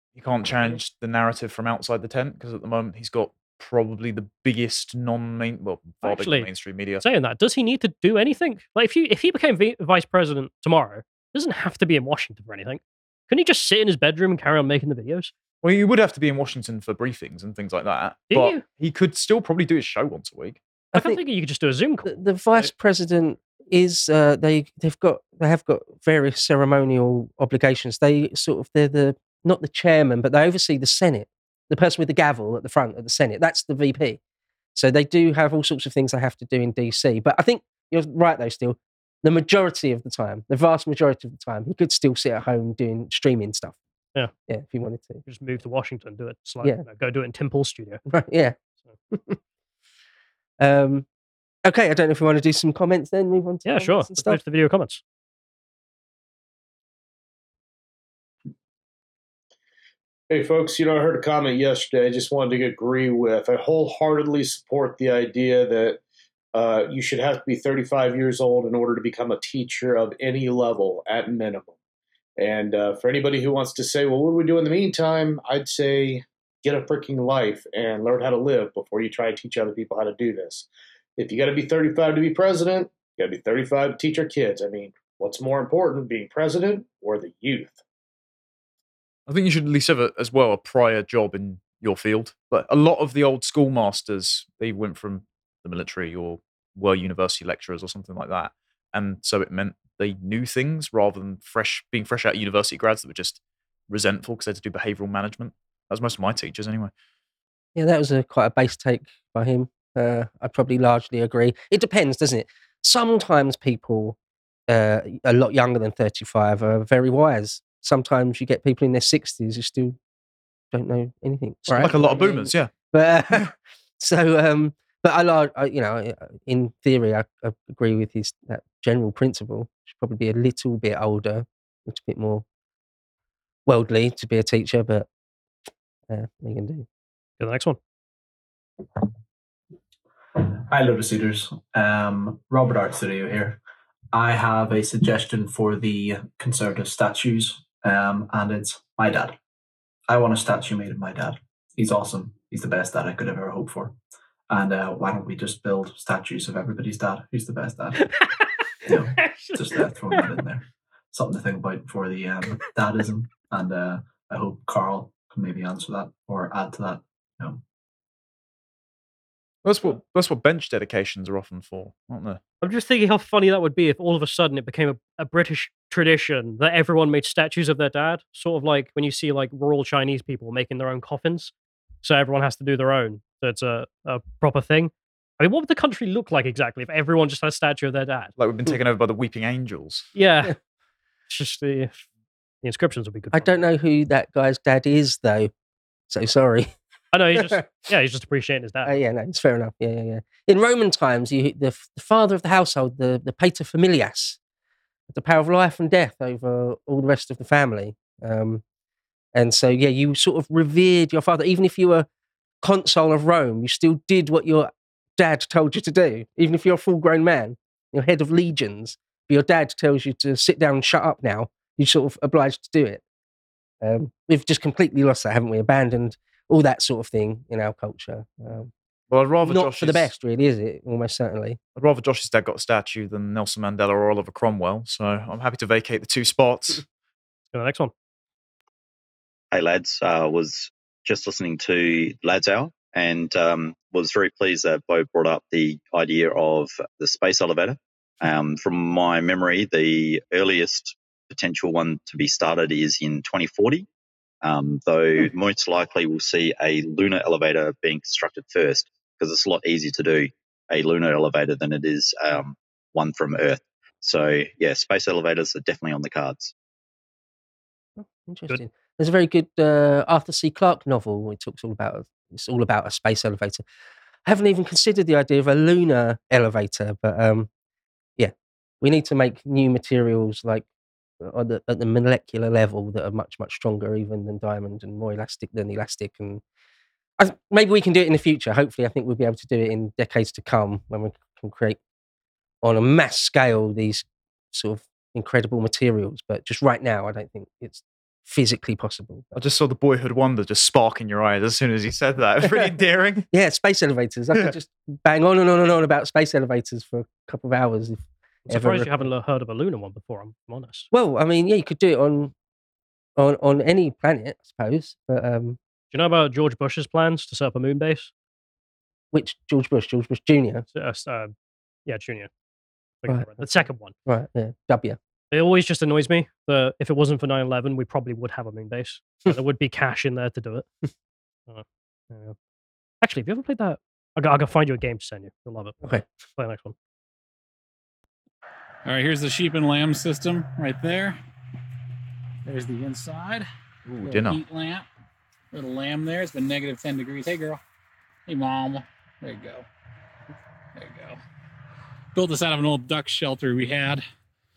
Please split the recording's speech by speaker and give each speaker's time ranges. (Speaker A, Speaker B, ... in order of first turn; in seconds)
Speaker A: 0.2-7.0, 15.6-20.6, 89.3-106.9, 121.8-122.7, 169.6-172.4, 188.4-190.1, 229.1-230.1, 231.8-236.8, 299.3-303.3, 343.9-344.4
Speaker B: 6.0-6.5, 7.0-15.3, 18.3-18.6, 20.9-22.7, 45.2-48.0, 53.6-55.0, 121.7-122.1, 137.4-137.8, 158.0-160.2, 172.6-181.5, 182.0-188.3, 190.2-190.5, 191.3-192.1, 192.6-193.5, 197.1-198.9, 237.5-237.9, 308.5-310.9, 315.9-318.1, 320.7-321.3, 321.9-322.3, 323.0-323.9, 325.3-330.7, 331.5-332.4, 333.0-335.8, 336.4-336.8
Speaker C: 20.9-21.2, 22.1-34.2, 34.8-43.8, 44.5-45.2, 48.1-48.6, 49.1-49.4, 50.6-51.1, 51.6-54.4, 107.8-114.2, 114.7-120.0, 120.7-132.4, 133.7-135.1, 136.1-136.9, 193.3-195.5, 196.1-196.7, 197.3-197.7, 198.8-204.4, 205.1-208.6, 209.3-212.1, 212.6-223.0, 223.8-228.7, 229.4-231.6, 268.0-273.6, 274.2-277.5, 278.2-280.7, 281.2-286.4, 287.2-291.8, 292.6-299.3, 302.4-302.7, 303.3-309.0, 310.9-312.3, 313.2-315.6, 319.1-320.6, 323.1-323.5, 324.1-325.0
Speaker D: 60.3-66.0, 66.5-71.8, 72.4-80.7, 81.2-87.8
Speaker E: 140.4-143.6, 144.1-149.4, 150.1-154.0, 154.5-158.2, 158.8-167.6
Speaker F: 239.5-253.9, 254.4-266.5
Speaker G: 338.9-341.2, 342.4-343.5, 344.0-344.9, 345.5-347.6, 348.3-349.7, 350.8-351.2, 352.1-354.0